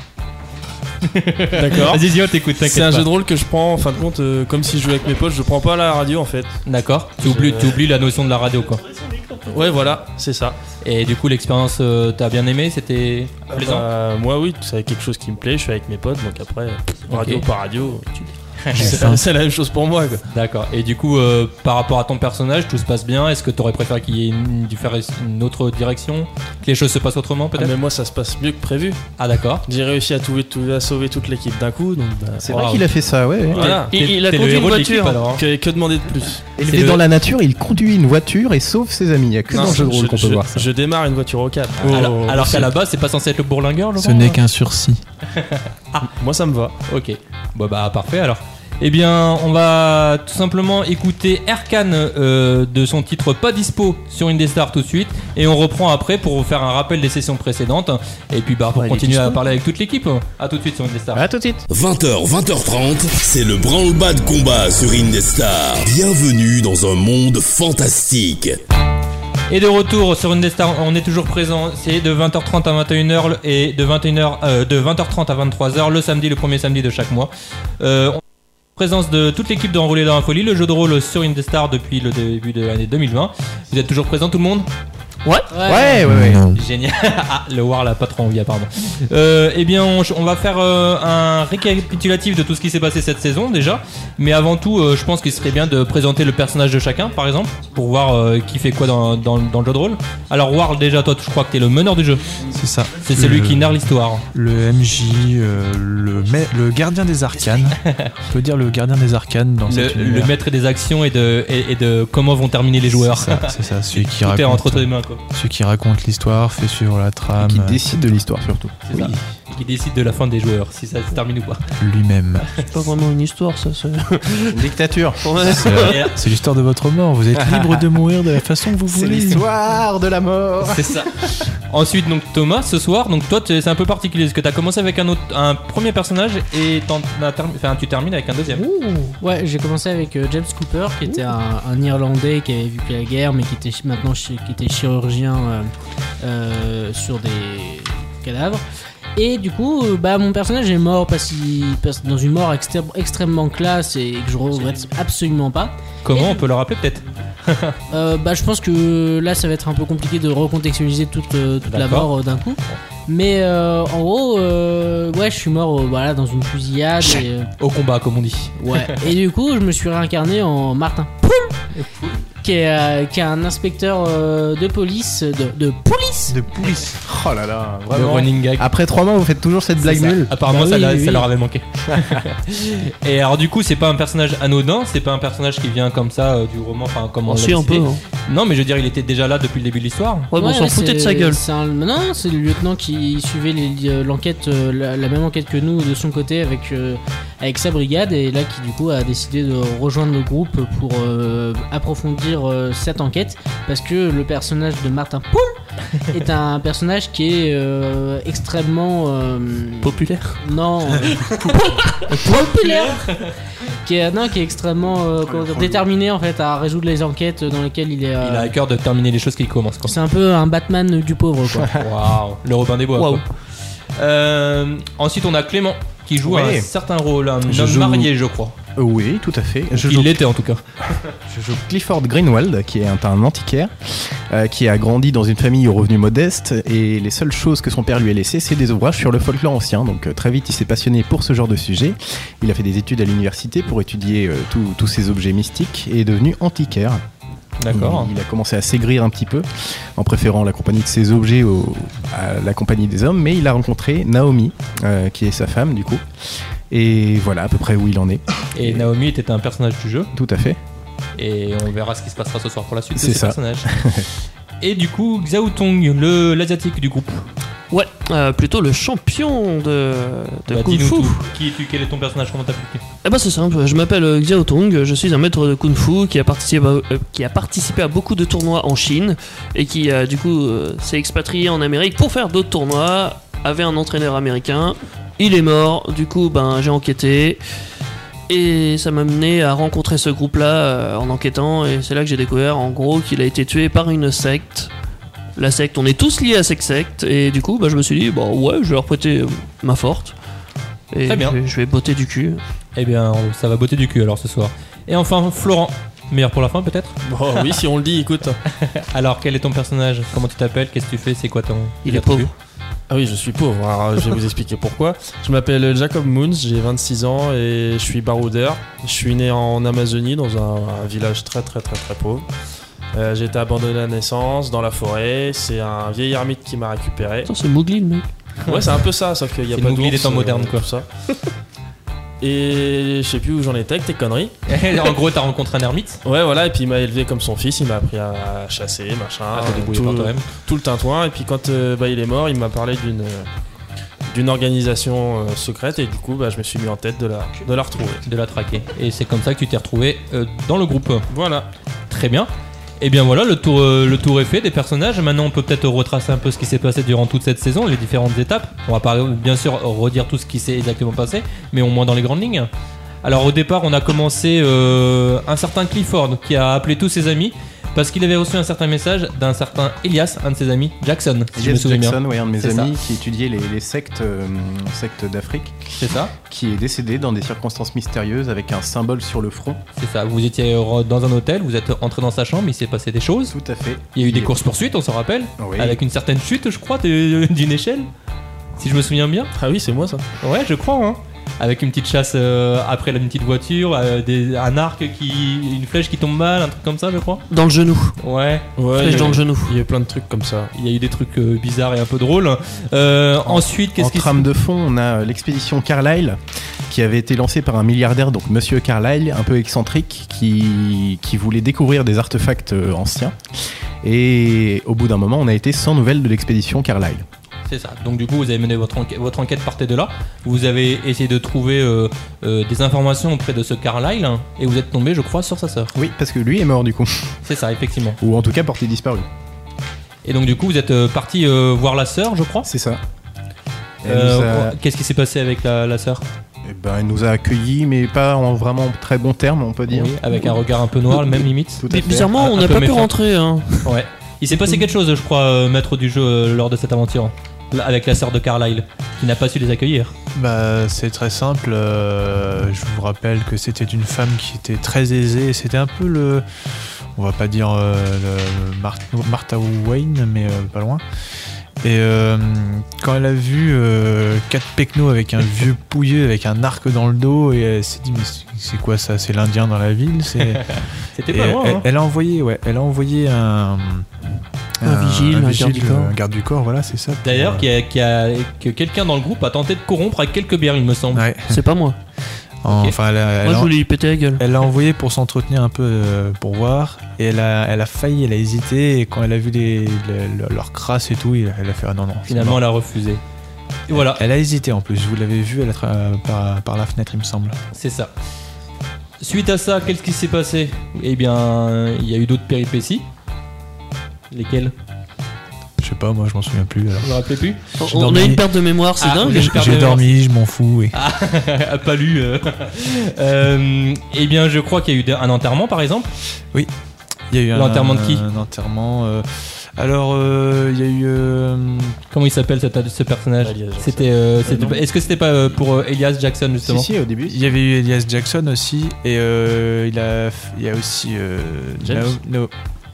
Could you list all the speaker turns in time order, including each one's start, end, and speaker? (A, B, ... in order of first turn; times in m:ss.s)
0:01.0-0:03.1 A
0:01.5-0:02.1 B
0:02.6-0:06.6 B
0:06.7-0:08.8 A
0:07.2-0:07.9 B
0:09.0-0:10.6 B
0:10.8-0:13.9 A
0:13.5-0:20.2 B
0:17.1-0:17.4 A
0:18.6-0:18.9 A
0:18.7-0:19.2 C
0:20.3-0:27.8 A
0:27.6-0:29.0 B
0:29.2-0:29.6 A
0:29.7-0:32.6 B
0:32.4-0:33.7 D
0:32.5-0:32.8 A
0:33.5-0:33.9 B
0:33.5-0:35.4 A
0:33.9-0:35.2 E
0:35.3-0:36.4 B
0:36.6-0:40.7 D
0:36.7-0:37.0 A
0:39.5-0:42.7 B
0:41.8-0:44.4 A
0:41.9-0:42.1 C
0:44.0-0:45.0 C
0:45.3-0:46.1 A
0:46.1-0:46.8 B
0:46.9-1:01.2 A
1:01.1-1:01.6 D
1:01.7-1:08.6 F
1:09.5-1:18.2 A
1:18.8-1:24.7 A
1:25.2-1:25.5 E
1:25.5-1:26.0 G
1:25.6-1:26.5 D
1:26.0-1:26.6 C
1:26.5-1:42.4 A
1:42.5-1:50.3 C
1:43.0-1:44.2 A
1:47.8-1:48.1 A
1:49.7-1:55.2 A
1:52.9-1:58.1 C
1:57.4-1:59.2 D
1:58.8-2:01.7 A
2:01.8-2:02.5 C
2:02.7-2:04.7 E
2:04.5-2:05.6 D
2:05.2-2:06.1 E
2:05.5-2:09.4 C
2:05.7-2:06.2 A
2:07.3-2:07.8 D
2:08.9-2:11.4 D
2:10.6-2:11.1 A
2:11.7-2:18.6 A
2:18.5-2:19.2 E
2:19.2-2:28.6 G
2:29.2-2:36.4 G
2:36.0-2:37.8 A
2:37.9-2:47.5 G
2:41.7-2:42.1 A
2:47.6-2:49.0 A
2:48.6-2:51.6 G
2:51.7-2:52.2 A
2:52.4-2:56.4 G
2:56.3-2:57.0 C
2:57.0-3:00.3 D
2:57.9-2:58.7 A
2:59.8-3:01.3 G
3:00.3-3:10.3 A
3:01.9-3:02.2 D
3:07.3-3:08.0 E
3:10.3-3:11.4 E
3:10.4-3:25.5 G
3:26.1-3:33.2 G
3:29.8-3:30.4 E
3:31.5-3:32.4 E
3:32.2-3:32.9 A
3:33.8-3:38.5 G
3:35.4-3:35.7 C
3:38.2-3:40.0 A
3:39.8-3:41.8 G
3:41.8-3:43.2 A
3:43.0-3:43.2 E
3:44.0-3:48.5 A
3:46.2-3:46.7 D
3:47.5-3:48.1 D
3:48.8-3:50.2 D
3:49.7-3:50.6 A
3:51.3-4:07.0 D
4:07.6-4:08.1 A
4:07.7-4:16.0 D
4:16.7-4:18.9 D
4:18.5-4:20.1 A
4:20.1-4:20.6 D
4:21.2-4:23.7 A
4:23.0-4:24.1 D
4:24.6-4:27.2 A
4:27.7-4:31.2 E
4:30.5-4:32.8 A
4:33.0-4:47.4 E
4:48.3-4:54.7 E
4:55.4-5:00.2 E
5:00.9-5:02.4 E
5:01.1-5:01.4 A
5:02.8-5:07.0 A
5:07.0-5:08.4 B
5:08.5-5:12.3 A
5:11.8-5:12.3 E
5:12.9-5:22.3 B
5:22.9-5:27.3 B
5:27.3-5:28.1 E
5:28.4-5:30.9 B
5:29.5-5:30.7 A
5:32.2-5:34.4 B
5:34.5-5:36.0 A
5:36.0-5:43.3 B
5:39.3-5:40.3 A
5:44.1-5:48.0 B
5:48.0-5:51.1 A
5:51.1-5:51.5 B
5:51.9-6:02.5 A
6:03.0-6:12.8 A
6:11.4-6:19.6 D
6:15.8-6:16.1 A
6:19.8-6:23.4 A
6:23.3-6:24.4 D
6:24.0-6:27.9 A
6:25.4-6:25.8 D
6:28.6-6:29.3 A
6:29.4-6:30.0 B
6:30.2-6:37.2 A
6:37.3-6:38.0 E
6:38.0-6:39.1 A
6:38.6-6:40.5 B
6:38.8-6:39.5 E
6:40.5-6:44.3 A
6:43.3-6:53.2 D
6:53.8-6:57.0 D
6:57.5-7:05.7 A
7:05.8-7:07.2 D
7:07.2-7:08.0 A
7:08.0-7:09.1 D
7:10.0-7:12.5 A
7:12.4-7:12.8 D
7:13.8-7:14.6 D
7:13.8-7:16.1 A
7:16.4-7:19.9 D
7:19.7-7:22.9 A
7:21.6-7:22.1 D
7:21.7-7:23.7 E
7:23.6-7:29.9 A
7:30.2-7:40.8 C
7:41.6-7:53.9 C
7:50.3-7:51.7 A
7:54.6-7:57.5 C
7:54.6-7:55.9 E
7:57.0-8:01.0 A
8:00.9-8:01.4 C
8:01.3-8:01.8 E
8:02.4-8:03.5 C
8:02.5-8:02.8 A
8:03.2-8:04.2 E
8:04.2-8:12.4 C
8:12.1-8:13.0 A
8:13.7-8:14.0 A
8:13.7-8:17.4 C
8:17.5-8:17.9 A
8:19.0-8:22.8 A
8:24.1-8:24.5 A
8:25.6-8:26.9 C
8:26.8-8:27.4 A
8:27.6-8:28.3 C
8:27.6-8:29.3 E
8:28.8-8:30.0 A
8:29.0-8:30.8 C
8:30.7-8:35.9 A
8:37.1-8:41.8 C
8:37.3-8:38.0 A
8:41.9-8:46.7 A
8:43.2-8:44.6 B
8:46.4-8:47.2 D
8:47.1-8:52.3 C